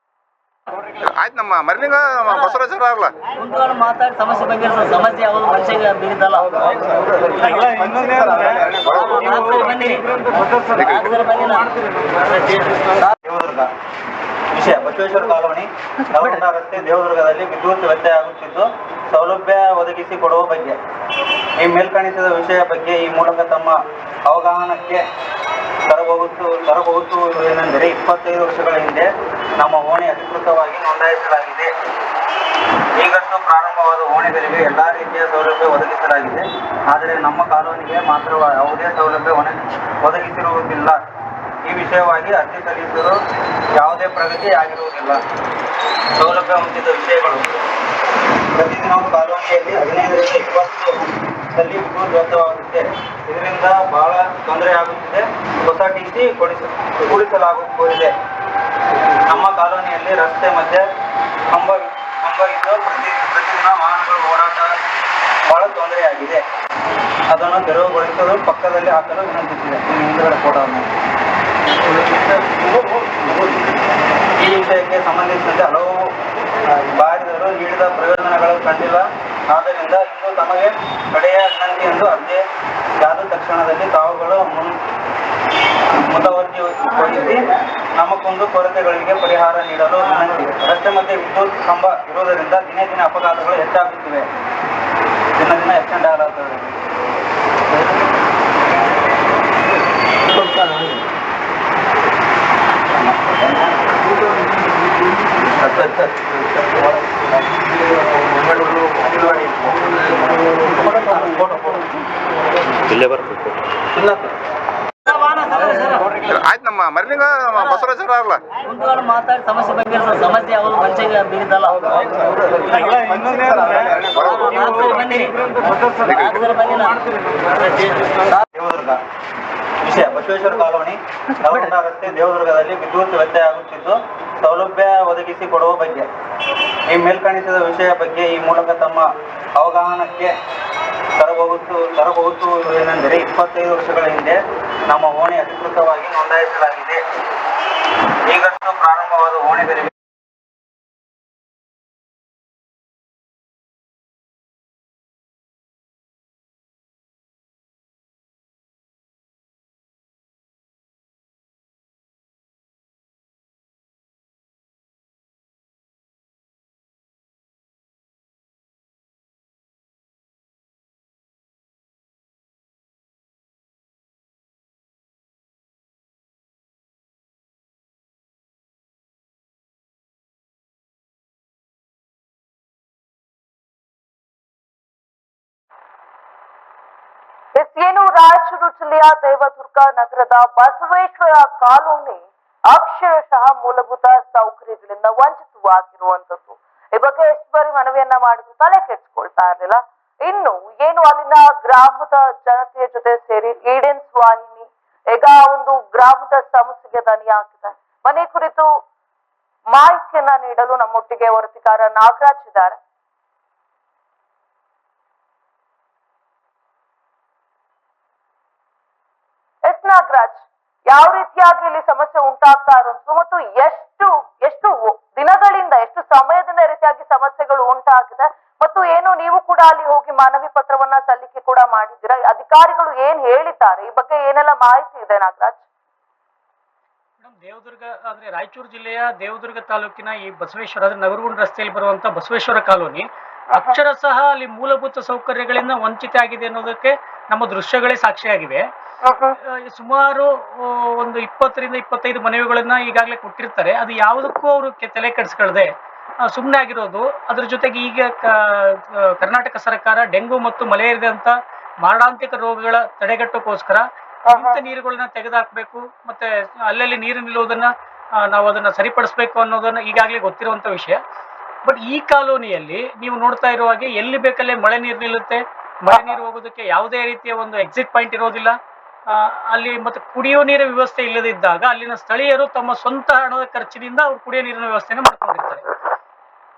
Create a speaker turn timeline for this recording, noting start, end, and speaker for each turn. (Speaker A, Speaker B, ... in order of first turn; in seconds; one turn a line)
Speaker A: 1.0-3.1
Speaker B: 2.3-2.6
Speaker B: 3.4-7.7
Speaker B: 8.8-10.2
Speaker A: 8.8-9.0
Speaker B: 10.8-13.1
Speaker C: 13.2-13.7
Speaker C: 14.5-20.8
Speaker C: 21.6-23.8
Speaker C: 24.3-25.0
Speaker C: 25.9-31.7
Speaker C: 33.0-41.0
Speaker C: 41.6-43.2
Speaker C: 43.8-45.2
Speaker C: 46.2-47.5
Speaker C: 48.5-51.0
Speaker C: 51.5-58.1
Speaker C: 59.3-60.8
Speaker C: 61.5-64.7
Speaker C: 65.5-66.4
Speaker C: 67.3-70.8
Speaker C: 74.4-76.1
Speaker C: 76.9-82.4
Speaker C: 83.0-84.8
Speaker C: 86.1-87.4
Speaker C: 88.0-94.2
Speaker C: 95.4-96.7
Speaker C: 102.9-103.7
Speaker C: 105.7-106.0
Speaker C: 109.1-109.4
Speaker C: 110.7-111.8
Speaker B: 115.1-116.0
Speaker A: 116.3-118.4
Speaker B: 117.6-117.9
Speaker B: 118.6-123.0
Speaker B: 123.8-125.4
Speaker A: 124.1-124.5
Speaker B: 126.1-128.4
Speaker C: 128.5-129.0
Speaker C: 129.8-136.1
Speaker C: 136.9-139.1
Speaker C: 139.6-140.3
Speaker C: 141.2-147.0
Speaker C: 148.3-149.9
Speaker D: 187.6-208.7
Speaker D: 209.7-212.8
Speaker D: 219.6-235.6
Speaker E: 237.2-248.6
Speaker D: 249.0-249.3
Speaker E: 249.7-255.7
Speaker E: 256.3-267.7
Speaker D: 264.3-264.6
Speaker E: 268.3-271.0
Speaker E: 271.6-278.5
Speaker E: 279.1-285.6